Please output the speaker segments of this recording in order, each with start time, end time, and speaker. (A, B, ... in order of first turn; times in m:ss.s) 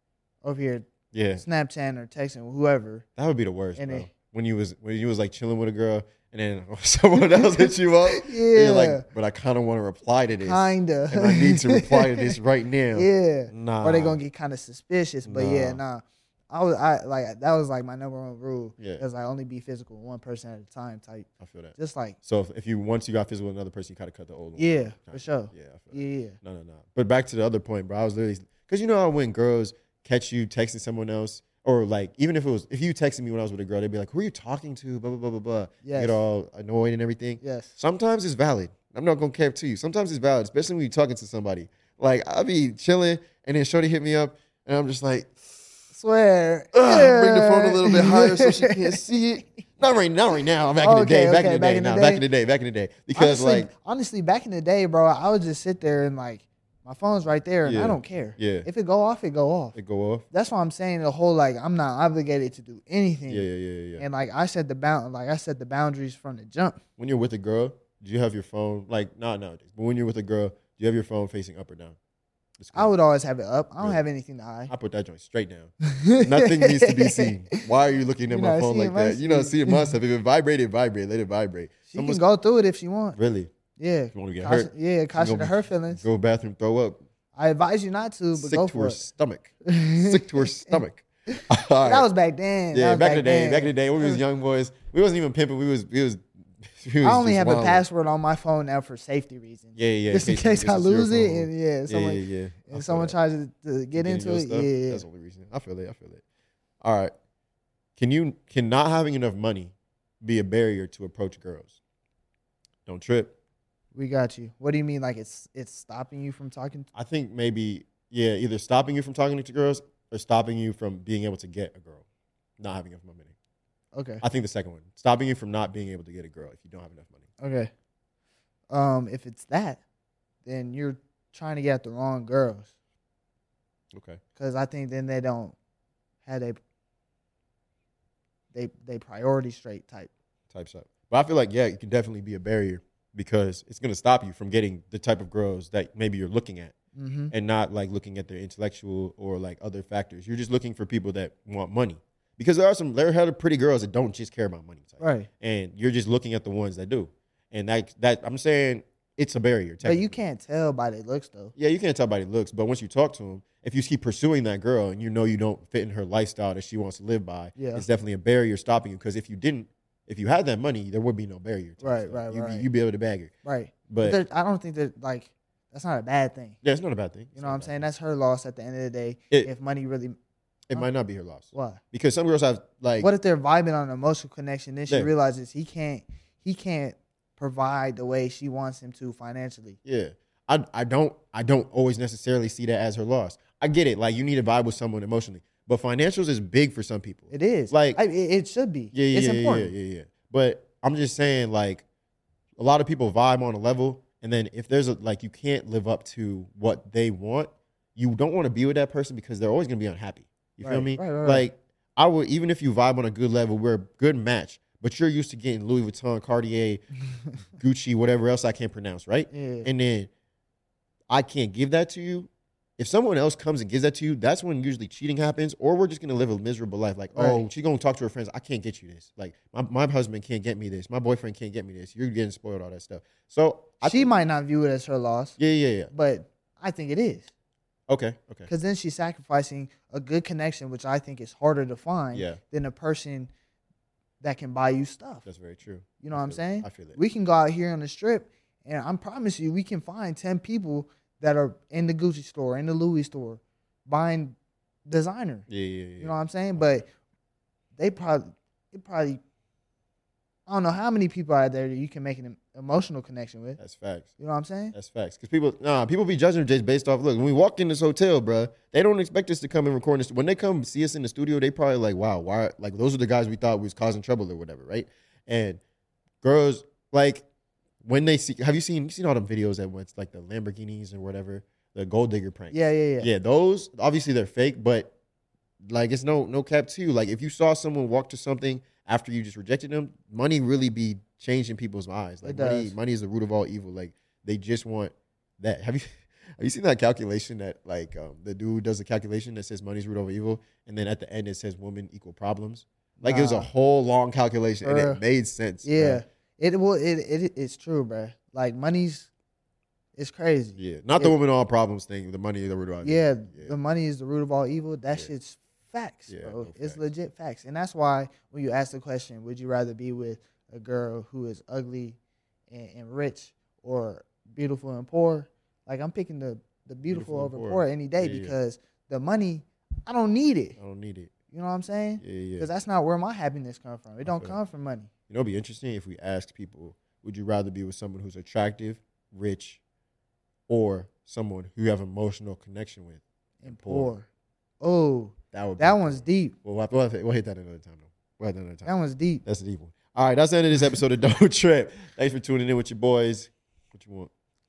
0:00.4-0:03.0 A
0:01.1-0:01.4 B
0:03.2-0:14.2 B
0:03.8-0:04.1 A
0:07.4-0:09.0 A
0:10.4-0:12.4 A
0:12.9-0:22.2 A
0:15.2-0:15.8 B
0:18.8-0:19.0 B
0:21.4-0:45.7 B
0:24.6-0:26.4 A
0:35.8-0:36.2 A
0:37.4-0:37.8 A
0:45.9-0:49.0 A
0:46.7-0:53.7 B
0:50.8-0:52.2 A
0:53.1-0:59.8 A
0:57.6-0:58.7 B
0:59.7-1:00.2 B
1:00.3-1:03.4 A
1:03.3-1:04.0 B
1:04.0-1:06.8 A
1:07.0-1:12.0 B
1:12.6-1:12.9 B
1:12.7-1:14.7 A
1:14.7-1:22.2 B
1:15.8-1:17.6 A
1:18.3-1:19.9 A
1:21.9-1:23.2 A
1:23.1-1:23.5 B
1:23.8-1:26.0 A
1:24.1-1:27.0 B
1:27.3-1:29.0 A
1:28.3-1:32.1 B
1:29.6-1:30.8 A
1:31.3-1:34.2 A
1:32.7-1:37.8 B
1:37.0-1:45.0 A
1:39.8-1:43.2 B
1:43.9-1:46.2 B
1:46.8-1:47.1 B
1:48.0-1:51.8 B
1:52.8-1:53.3 B
1:53.9-1:56.9 A
1:56.9-2:02.0 B
2:02.6-2:03.3 B
2:03.9-2:04.2 A
2:04.2-2:07.3 B
2:07.4-2:07.7 A
2:08.7-2:09.8 A
2:10.4-2:12.7 A
2:13.9-2:14.2 B
2:14.4-2:15.5 A
2:16.2-2:16.6 A
2:18.5-2:20.1 A
2:20.5-2:26.7 B
2:26.9-2:27.3 A
2:27.3-2:40.2 B
2:35.0-2:35.3 A
2:39.8-2:41.5 A
2:41.5-2:53.3 B
2:47.6-2:47.8 A
2:51.8-2:52.6 A
2:53.4-2:56.6 A
2:53.9-2:54.2 B
2:56.6-2:57.8 B
2:57.4-3:00.2 A
3:00.7-3:03.1 B
3:01.5-3:01.8 A
3:03.0-3:09.8 A
3:09.8-3:18.0 B
3:17.3-3:19.7 A
3:18.9-3:21.8 B
3:22.6-3:36.8 B
3:30.6-3:31.4 A
3:37.6-3:40.1 B
3:39.3-3:39.7 A
3:41.1-3:54.1 B
3:47.1-3:47.5 A
3:53.8-3:55.4 A
3:55.4-3:55.9 B
3:55.9-3:57.3 A
3:57.9-3:58.5 B
3:58.5-4:03.3 A
4:02.1-4:02.4 B
4:04.2-4:05.2 A
4:05.2-4:07.0 B
4:06.0-4:15.4 A
4:15.5-4:16.1 B
4:16.0-4:16.9 A
4:17.8-4:19.2 A
4:20.5-4:23.6 A
4:23.6-4:24.1 B
4:24.2-4:24.7 A
4:24.7-4:35.6 B
4:36.2-4:37.2 B
4:37.8-4:44.9 B
4:42.5-4:43.1 A
4:45.6-5:06.0 B
4:52.2-4:52.7 A
5:03.0-5:03.5 A
5:04.6-5:05.0 A
5:05.6-5:09.1 A
5:10.0-5:11.2 A
5:10.6-5:13.5 B
5:12.8-5:22.0 A
5:16.1-5:16.9 B
5:22.5-5:30.6 A
5:26.9-5:28.3 B
5:30.6-5:31.1 B
5:31.3-5:34.9 A
5:32.0-5:32.5 B
5:34.0-5:34.4 B
5:35.1-5:39.6 B
5:40.5-5:44.0 B
5:43.4-5:44.0 A
5:44.6-5:46.3 A
5:45.3-5:48.7 B
5:48.6-5:49.2 A
5:49.2-5:54.1 B